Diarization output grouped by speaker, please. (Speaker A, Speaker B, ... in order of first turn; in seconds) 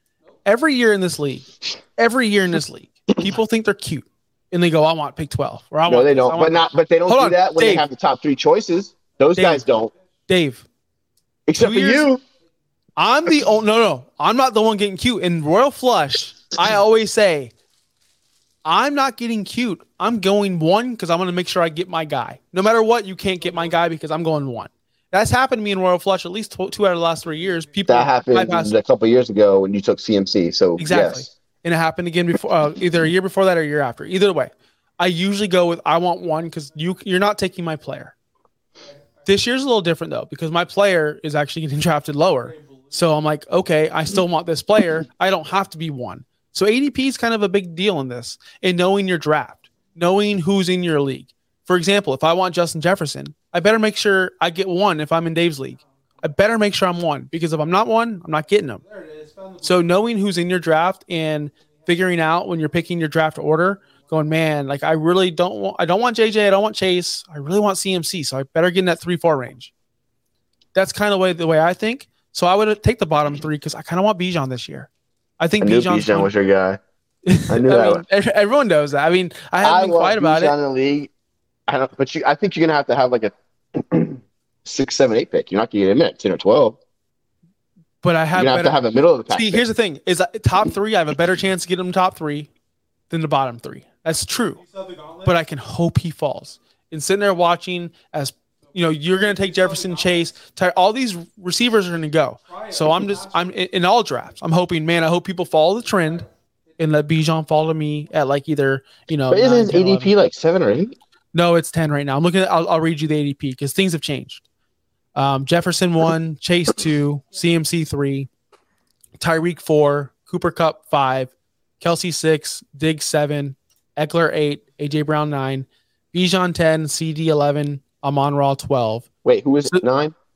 Speaker A: 0.4-7.8, 9.3-9.7, 10.3-10.7, 11.5-12.1, 13.0-17.5, 18.6-28.7, 30.8-38.1, 39.2-58.8, 59.6-69.7, 70.7-74.9, 75.4-76.3, 77.3-80.5, 88.0-88.8, 89.3-92.5, 93.1-94.6, 95.2-106.3, 106.8-110.1, 111.3-114.4, 115.1-118.3, 119.2-129.1
Speaker B: 5.9-9.9, 11.5-12.2, 27.9-31.3, 75.6-76.8, 77.5-78.0, 79.6-81.1, 81.7-86.8, 88.3-89.6, 109.3-110.9, 129.2-130.1